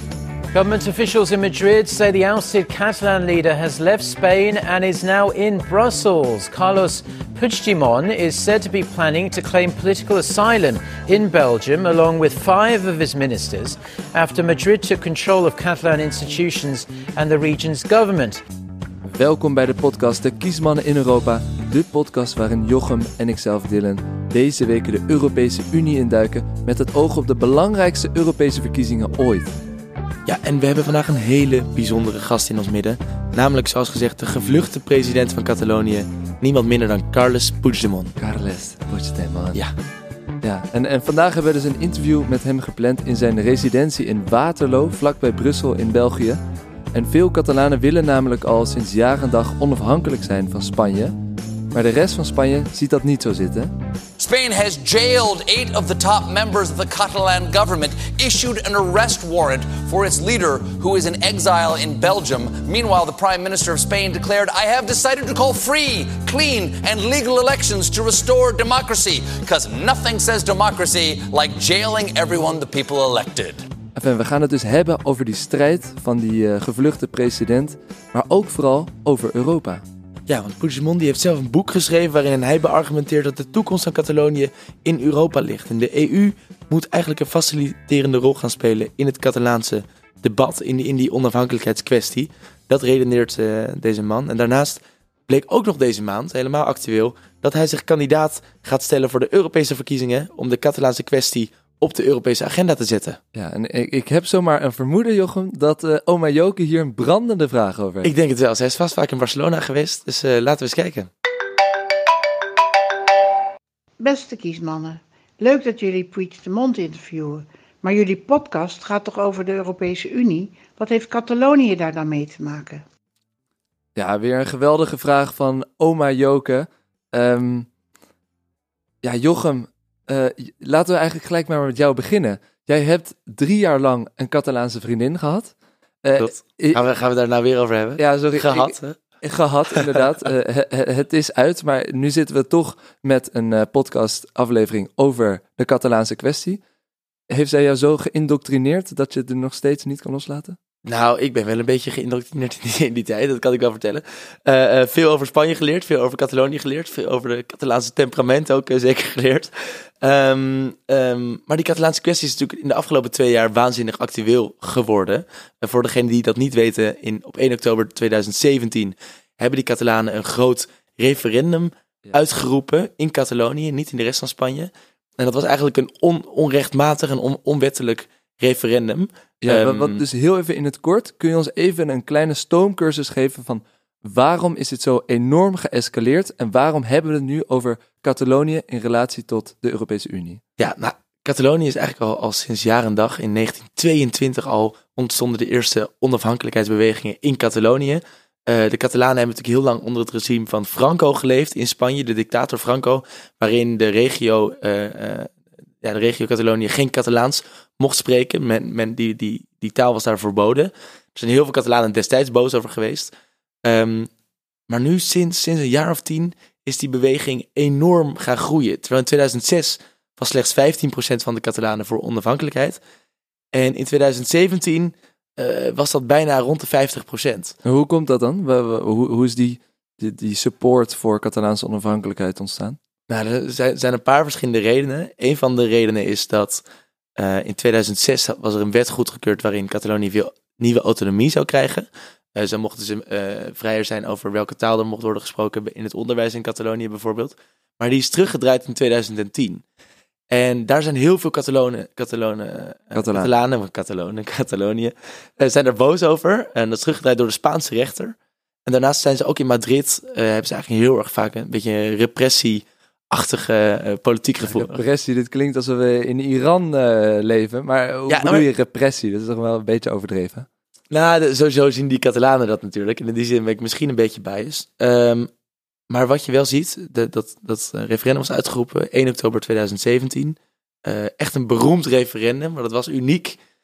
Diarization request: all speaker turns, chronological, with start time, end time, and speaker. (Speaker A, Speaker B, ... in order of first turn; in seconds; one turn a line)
Speaker A: 0.5-18.4
Speaker B: 19.1-29.6
Speaker C: 30.3-38.2
Speaker B: 38.2-39.6
Speaker B: 40.4-46.4
Speaker B: 46.9-51.1
Speaker B: 51.7-53.7
Speaker D: 54.2-73.6
Speaker B: 74.0-79.8
Speaker C: 80.3-103.2
Speaker B: 103.3-108.1
Speaker C: 108.0-111.1
Speaker E: 114.0-122.8
Speaker B: 124.0-127.7
Speaker B: 129.0-136.8
Speaker C: 136.2-139.0
Speaker B: 138.0-146.6
Speaker C: 139.8-140.0
Speaker B: 147.3-150.6
Speaker C: 150.9-180.0
Speaker B: 179.4-190.4
Speaker C: 190.6-205.3
Speaker C: 205.8-213.1
Speaker C: 213.7-214.1
Speaker C: 214.7-222.8
Speaker C: 223.5-227.6
Speaker B: 227.6-232.8
Speaker C: 233.1-236.6
Speaker C: 237.2-249.6
Speaker C: 250.3-258.1
Speaker B: 252.9-253.3
Speaker C: 258.7-264.8
Speaker B: 264.4-270.5
Speaker C: 268.1-268.4
Speaker C: 270.9-275.3
Speaker C: 275.9-283.4